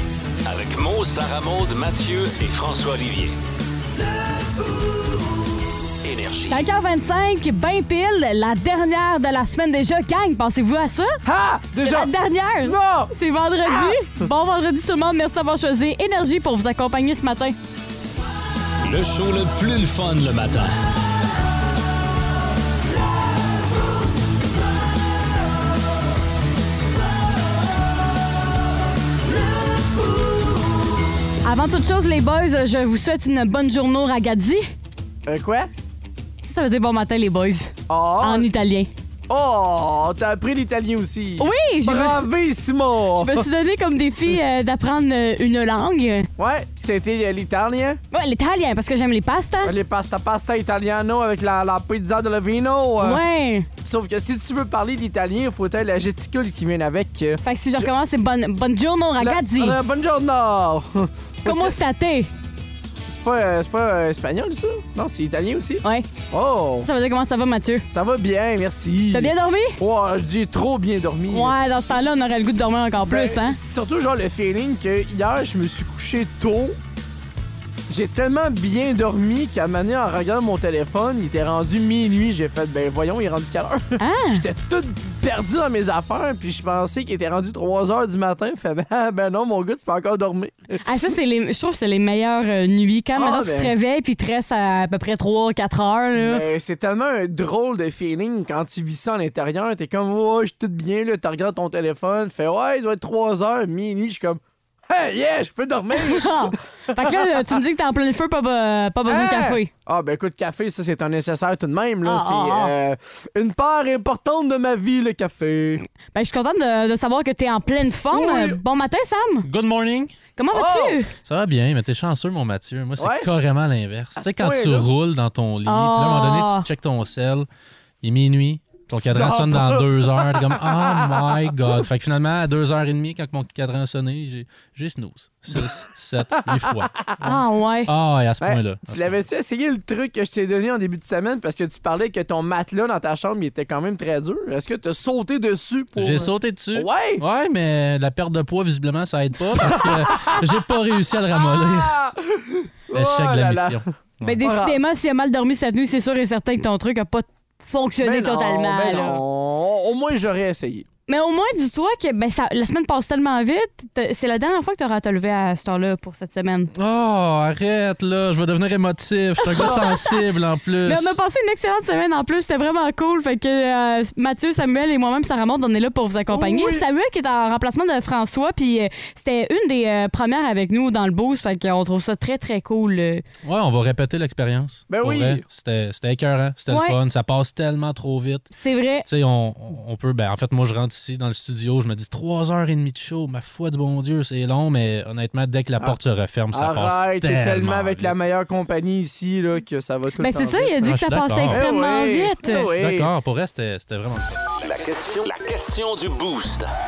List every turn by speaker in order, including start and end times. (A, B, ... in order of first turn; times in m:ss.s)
0:00.4-0:03.3 A
0:06.0-0:06.6 A
0:06.5-0:11.2 B
0:11.2-0:13.1 C
0:11.8-0:17.6 B
0:13.6-0:14.2 C
0:18.8-0:20.7 A
0:31.4-0:34.7 B
0:35.2-0:35.7 C
0:36.4-0:38.9 B
0:37.9-0:38.5 C
0:39.3-0:43.5 C
0:41.4-0:42.3 B
0:43.2-0:46.3 B
0:46.4-0:48.0 C
0:48.1-0:49.7 B
0:49.6-0:53.2 C
0:53.0-0:53.7 B
0:53.8-0:57.9 C
0:57.4-0:59.8 B
0:59.2-1:01.7 C
1:01.4-1:02.3 B
1:03.1-1:06.9 C
1:06.8-1:07.8 B
1:07.9-1:11.5 C
1:09.1-1:09.8 B
1:11.3-1:13.6 B
1:13.0-1:16.8 C
1:17.9-1:30.8 C
1:24.0-1:24.4 B
1:30.8-1:36.4 B
1:33.1-1:33.7 C
1:36.2-1:47.2 C
1:46.0-1:49.7 B
1:49.0-1:55.8 C
1:52.0-1:52.7 B
1:56.1-1:59.4 B
1:58.1-1:58.6 C
1:59.4-2:00.1 D
2:00.4-2:01.1 B
2:00.5-2:01.0 C
2:01.2-2:07.5 D
2:03.0-2:03.3 C
2:04.2-2:04.9 C
2:05.6-2:06.6 B
2:08.0-2:16.9 D
2:09.0-2:11.3 C
2:16.6-2:17.4 C
2:17.2-2:17.9 B
2:17.9-2:19.2 D
2:18.4-2:27.2 C
2:26.0-2:31.9 D
2:29.6-2:30.4 C
2:31.3-2:33.8 C
2:32.9-2:34.4 D
2:34.2-2:39.2 B
2:34.4-2:34.8 C
2:38.0-2:40.8 C
2:41.1-2:46.7 B
2:46.7-2:51.2 D
2:49.4-2:50.2 B
2:49.5-2:49.8 C
2:50.8-3:03.2 B
2:56.3-2:56.8 C
3:03.4-3:08.5 D
3:04.9-3:05.4 C
3:06.7-3:07.0 B
3:08.5-3:09.0 B
3:09.0-3:18.2 D
3:16.5-3:20.8 C
3:20.2-3:22.7 B
3:20.8-3:21.6 D
3:21.5-3:23.1 C
3:22.8-3:24.4 D
3:24.5-3:26.7 A